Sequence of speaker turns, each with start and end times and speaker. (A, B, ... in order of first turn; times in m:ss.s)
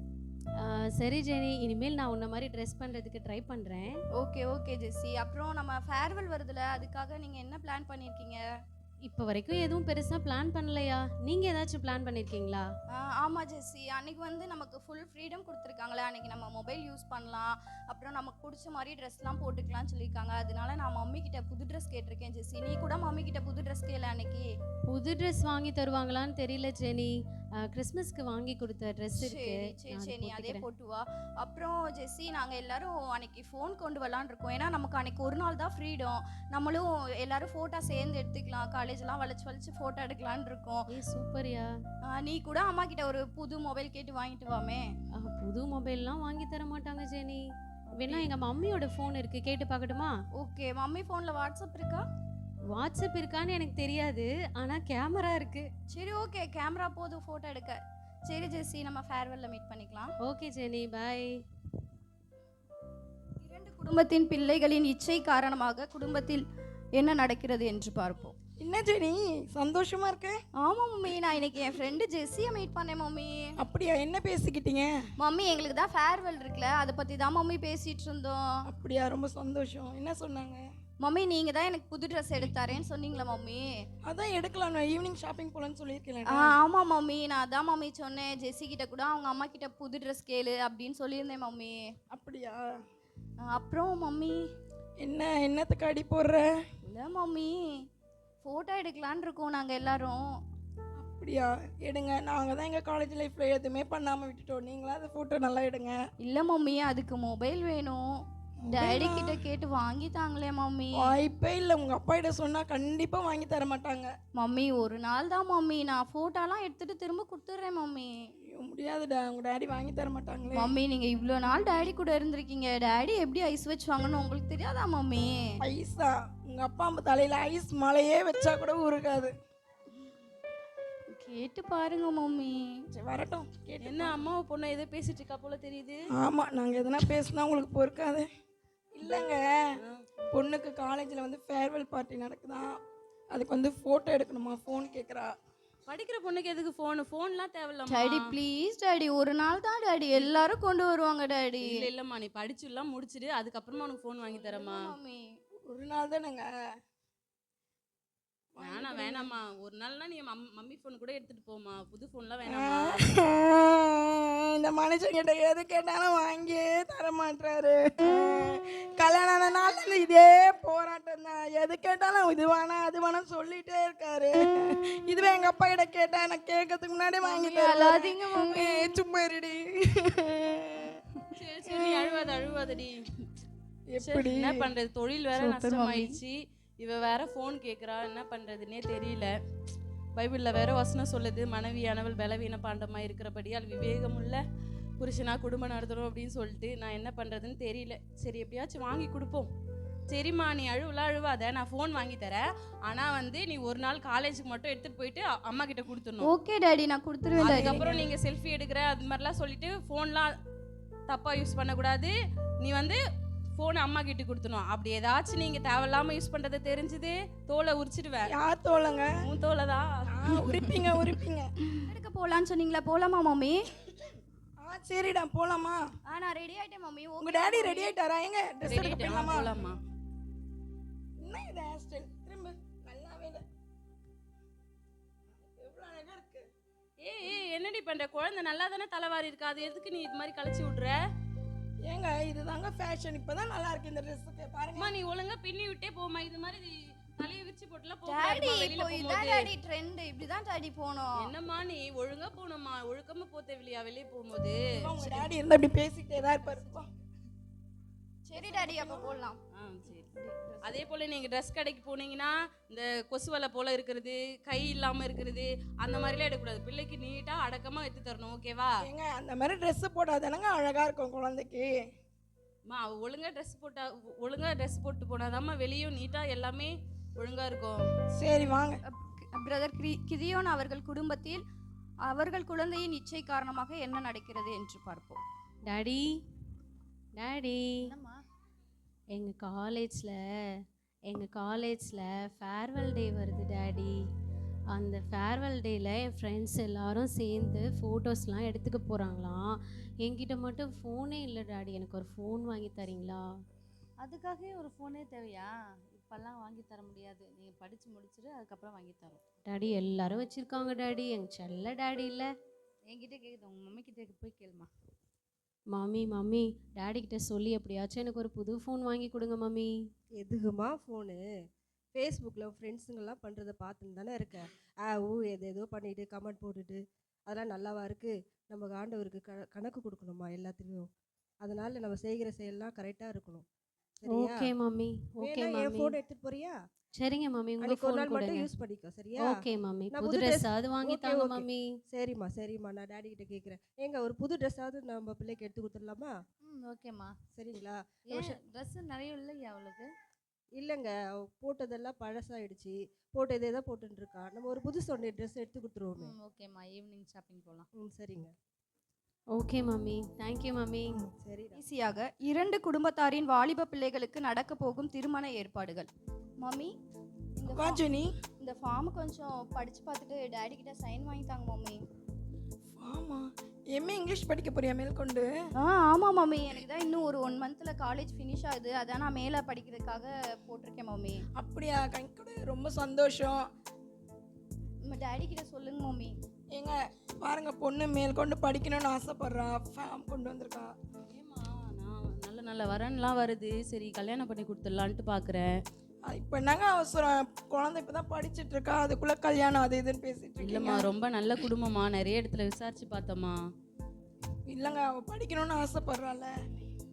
0:00.6-0:04.0 A
0:04.2-0:08.4 B
0:09.0-0:12.7 A
0:12.9-0:24.5 B
0:24.9-0:30.6 A
0:29.2-0:40.8 B
0:40.9-0:41.7 A
0:42.1-0:44.9 B
0:45.2-0:47.4 A
0:48.0-0:50.1 A
0:50.4-0:52.0 B
0:52.7-0:55.7 A
0:55.9-1:00.1 B
1:00.2-1:01.4 A
1:03.4-1:06.4 B
1:07.0-1:08.3 B
1:08.6-1:10.4 C
1:10.6-1:13.5 B
1:13.6-1:14.9 C
1:15.2-1:18.4 B
1:18.7-1:20.6 C
1:21.0-1:23.7 B
1:24.0-1:26.5 C
1:26.3-1:31.8 B
1:32.1-1:32.6 C
1:33.4-1:34.4 B
1:35.0-1:36.6 C
1:36.9-1:37.8 B
1:38.4-1:40.2 B
1:41.0-1:46.0 C
1:46.2-1:51.1 B
1:48.6-1:49.4 C
1:50.9-1:54.1 C
1:54.3-1:58.1 B
1:58.5-2:00.7 C
2:00.5-2:05.4 B
2:05.6-2:09.3 C
2:11.1-2:12.7 B
2:12.9-2:14.1 C
2:13.8-2:16.0 D
2:16.2-2:18.3 C
2:18.9-2:19.5 C
2:20.3-2:22.8 C
2:23.3-2:25.3 C
2:25.9-2:28.2 D
2:27.9-2:31.7 B
2:30.2-2:30.4 D
2:31.6-2:34.8 D
2:34.2-2:35.3 B
2:35.7-2:36.5 C
2:38.6-2:39.2 C
2:38.6-2:43.0 D
2:42.5-3:01.0 C
2:57.2-2:59.0 B
3:01.3-3:03.0 D
3:03.9-3:04.7 C
3:04.0-3:09.3 D
3:05.3-3:06.2 B
3:10.2-3:14.4 D
3:15.0-3:19.5 D
3:20.1-3:26.3 D
3:26.2-3:27.9 B
3:27.4-3:30.3 D
3:27.6-3:28.0 C
3:31.1-3:33.0 D
3:33.6-3:38.3 D
3:38.3-3:39.1 C
3:39.2-3:40.4 D
3:40.1-3:41.5 C
3:41.8-3:43.7 B
3:44.6-3:45.8 C
3:46.1-3:47.9 B
3:47.2-3:49.6 C
3:48.6-3:49.8 D
3:51.2-3:53.4 C
3:55.6-3:56.4 C
3:57.0-4:00.9 D
4:01.9-4:04.9 C
4:04.8-4:09.5 D
4:08.0-4:11.3 B
4:11.2-4:15.2 D
4:14.7-4:16.9 C
4:18.2-4:19.4 B
4:18.4-4:19.1 C
4:19.5-4:28.7 D
4:20.3-4:20.6 E
4:28.8-4:31.7 C
4:32.7-4:37.8 D
4:38.2-4:38.8 C
4:38.9-4:41.4 B
4:42.0-4:45.2 B
4:45.7-4:46.2 A
4:47.2-4:48.0 A
4:47.8-4:48.2 E
4:49.1-4:54.0 A
4:54.7-5:03.2 A
5:04.0-5:09.2 E
5:09.5-5:12.3 A
5:12.9-5:14.7 E
5:15.7-5:19.7 A
5:20.2-5:21.2 F
5:21.9-5:30.9 F
5:31.4-5:33.4 F
5:34.0-5:34.5 F
5:34.1-5:35.9 A
5:35.2-5:36.6 F
5:37.0-5:38.5 A
5:37.6-5:39.3 F
5:39.2-5:41.6 A
5:39.9-5:46.1 F
5:46.4-5:47.1 E
5:47.3-5:48.4 F
5:48.1-5:49.9 E
5:50.6-5:56.1 F
5:56.0-5:57.7 E
5:57.8-5:58.3 F
5:59.3-6:01.0 A
6:00.9-6:01.6 F
6:01.5-6:05.9 B
6:06.4-6:06.7 B
6:07.4-6:07.8 B
6:07.5-6:08.1 C
6:08.4-6:11.8 B
6:12.8-6:15.3 C
6:15.6-6:21.2 B
6:21.4-6:23.5 C
6:24.8-6:26.1 B
6:26.5-6:30.7 C
6:31.1-6:35.5 D
6:36.1-6:40.9 C
6:40.4-6:43.4 D
6:44.5-6:46.3 C